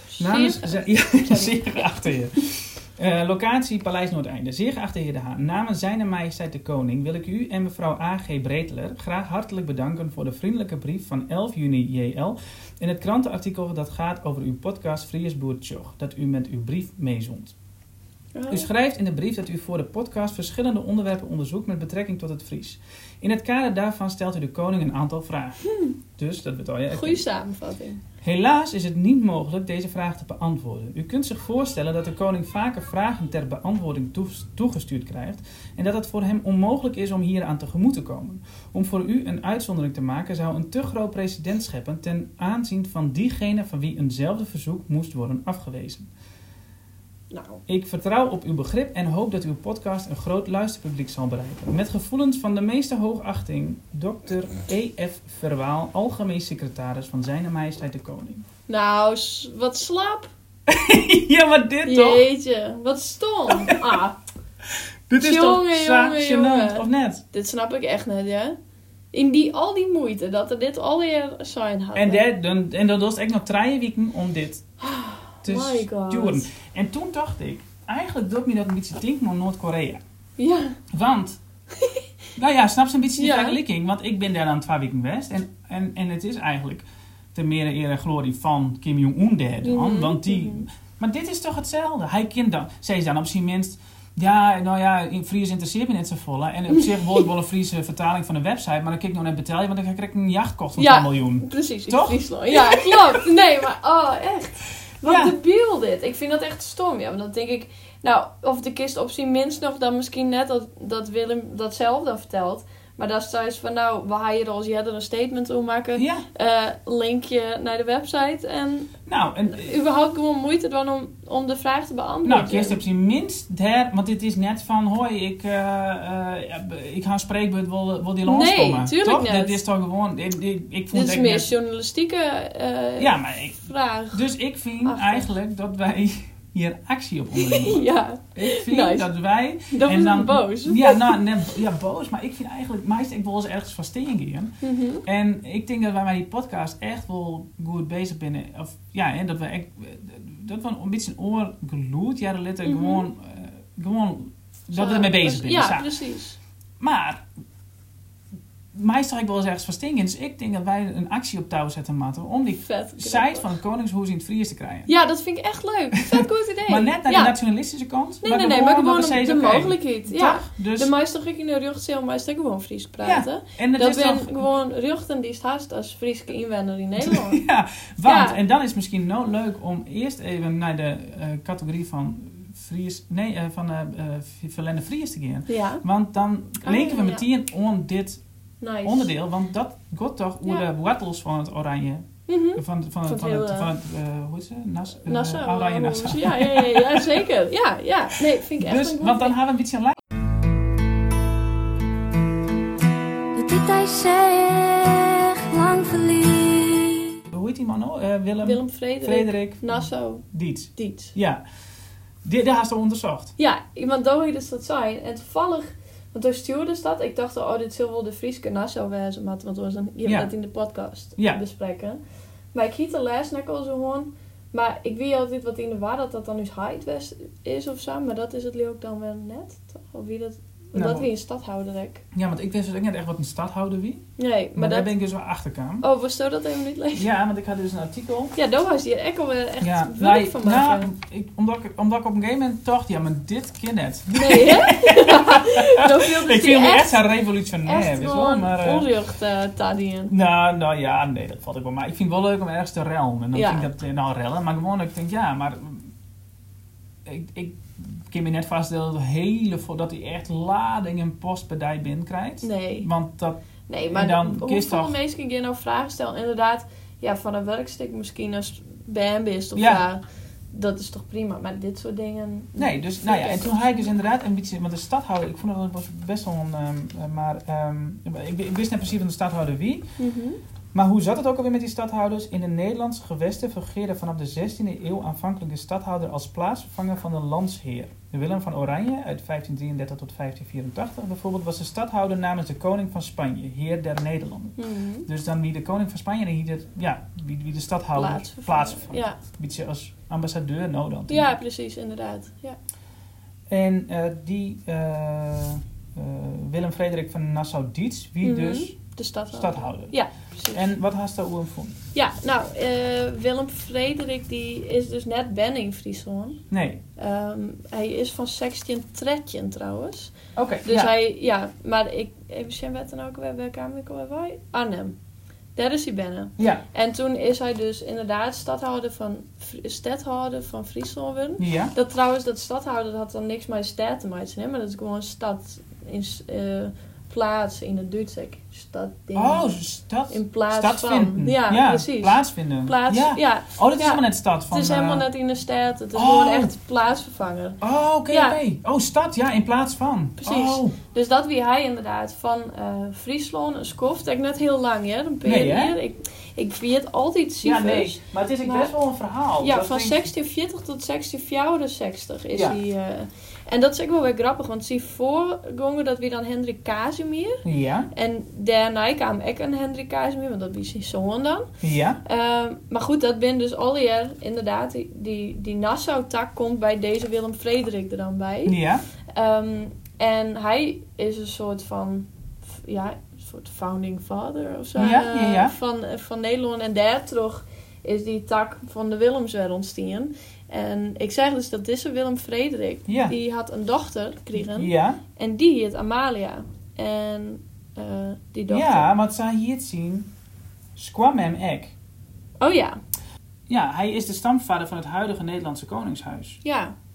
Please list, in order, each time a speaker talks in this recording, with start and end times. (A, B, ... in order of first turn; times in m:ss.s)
0:00.1-0:02.2 A
0:00.2-0:17.5 B
0:18.3-0:18.7 A
0:18.5-0:25.6 B
0:25.7-0:25.9 A
0:26.1-0:27.2 B
0:26.9-0:28.0 A
0:28.2-0:46.1 B
0:47.3-0:47.6 A
0:47.7-0:58.4 B
0:58.7-1:00.3 A
1:00.7-1:02.2 B
1:01.8-1:04.2 A
1:03.5-1:03.8 B
1:05.1-1:07.2 B
1:05.2-1:08.6 A
1:09.1-1:12.2 A
1:11.9-1:14.7 B
1:14.8-1:16.5 A
1:15.4-1:20.0 B
1:20.4-1:20.8 A
1:20.9-1:21.4 B
1:21.8-1:22.0 A
1:22.4-1:43.2 B
1:23.2-1:23.6 A
1:29.6-1:30.7 A
1:40.8-1:58.9 A
1:45.0-1:45.4 B
1:55.9-1:56.2 B
1:59.0-1:59.8 B
1:59.5-2:02.8 A
2:02.2-2:11.5 B
2:08.2-2:09.6 A
2:10.9-2:14.2 A
2:13.0-2:35.9 B
2:14.8-2:15.3 A
2:17.4-2:19.1 A
2:19.7-2:21.2 A
2:24.6-2:25.0 A
2:32.6-2:33.0 A
2:34.7-2:36.4 A
2:36.8-2:37.2 B
2:38.7-2:44.9 B
2:42.6-2:43.5 A
2:44.9-2:47.3 A
2:46.1-2:50.9 B
2:48.2-2:57.4 A
2:53.0-2:54.5 B
2:57.0-3:08.2 B
2:58.0-2:58.4 A
3:05.5-3:05.8 A
3:06.6-3:07.2 A
3:08.6-3:09.1 A
3:08.8-3:17.2 B
3:12.3-3:13.7 A
3:15.0-3:19.3 A
3:18.6-3:20.0 B
3:23.3-3:27.2 C
3:27.3-3:31.4 B
3:28.4-3:31.1 A
3:32.2-3:33.3 B
3:33.4-3:42.0 A
3:40.0-3:40.3 B
3:42.5-3:52.0 A
3:50.7-3:51.1 B
3:52.1-3:55.8 B
3:54.2-3:54.9 A
3:55.8-3:57.1 A
3:57.0-3:58.3 B
3:58.4-4:00.9 A
3:59.6-4:08.9 B
4:04.1-4:07.0 A
4:07.6-4:10.1 A
4:10.1-4:15.9 B
4:13.3-4:13.7 A
4:17.0-4:23.4 B
4:22.4-4:22.9 A
4:23.7-4:30.0 A
4:23.9-4:24.9 B
4:29.5-4:29.8 B
4:30.5-4:33.9 A
4:32.6-4:39.9 B
4:40.0-4:40.4 A
4:40.7-5:01.3 B
4:54.6-4:55.1 A
4:57.9-4:59.2 A
5:01.1-5:02.6 A
5:03.5-5:08.8 B
5:08.2-5:10.7 A
5:09.3-5:10.0 B
5:10.5-5:11.8 B
5:11.9-5:16.4 A
5:16.5-5:16.8 B
5:17.0-5:25.0 A
5:20.4-5:20.9 B
5:25.6-5:39.5 A
5:26.4-5:26.6 B
5:31.4-5:31.7 B
5:39.1-5:45.0 B
5:40.1-5:48.4 A
5:45.9-5:46.5 B
5:47.6-5:50.8 B
5:50.2-5:58.7 A
5:55.2-5:55.8 B
5:57.4-6:00.1 B
5:59.4-6:11.5 A
6:02.3-6:02.6 B
6:07.4-6:07.9 B
6:11.6-6:12.0 B
6:12.0-6:18.6 A
6:18.4-6:18.8 B
6:19.1-6:38.9 A
6:24.8-6:25.6 B
6:32.9-6:33.1 B
6:34.3-6:35.0 B
6:38.5-6:40.1 B
6:40.8-6:41.7 B
6:42.4-6:42.8 A
6:43.5-6:46.4 B
6:46.4-6:46.7 A